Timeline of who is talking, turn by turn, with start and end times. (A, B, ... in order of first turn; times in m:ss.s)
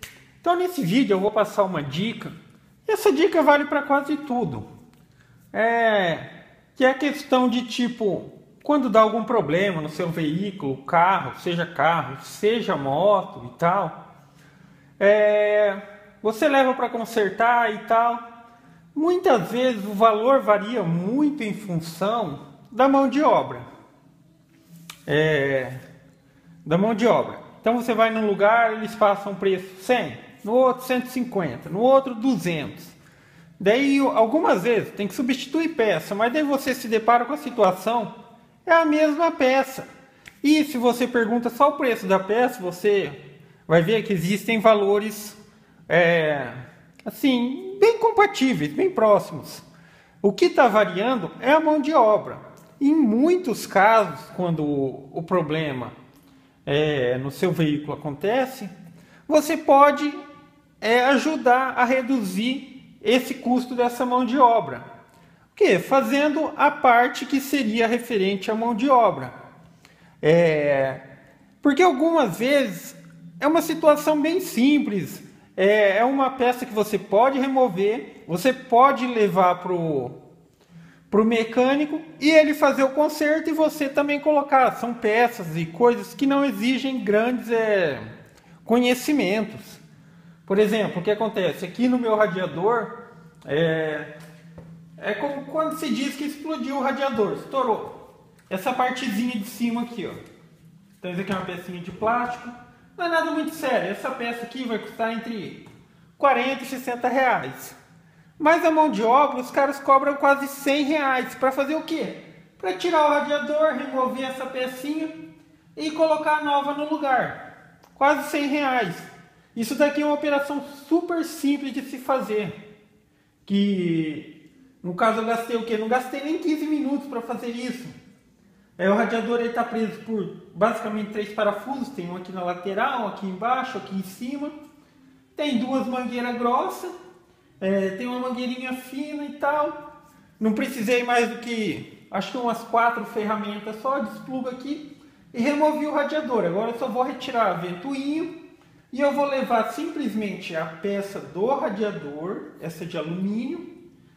0:00.4-0:02.4 A
0:02.9-0:04.7 A
0:05.5-0:14.0 A
0:15.0-0:18.2 A
0:19.0-0:23.7 A
0:25.1-0:25.8 A
0:26.6-0:33.0 A
0:33.6-0:38.1 A
0:38.7-0:39.9 A
0:40.4-0:49.6 A
0:50.2-0:56.0 A
0:56.7-0:58.7 A
0:59.3-1:00.2 A
1:00.8-1:04.9 A
1:05.5-1:09.3 A
1:10.2-1:11.0 A
1:11.6-1:20.2 A
1:21.1-1:28.1 A
1:28.6-1:29.8 A
1:30.5-1:32.9 A
1:33.5-1:34.1 A
1:35.0-1:40.2 A
1:41.0-1:45.7 A
1:46.2-1:47.8 A
1:48.4-1:55.1 A
1:55.8-1:57.4 A
1:58.0-2:02.6 A
2:03.5-2:07.9 A
2:08.8-2:14.5 A
2:15.4-2:16.9 A
2:17.6-2:19.8 A
2:20.4-2:28.4 A
2:28.9-2:33.7 A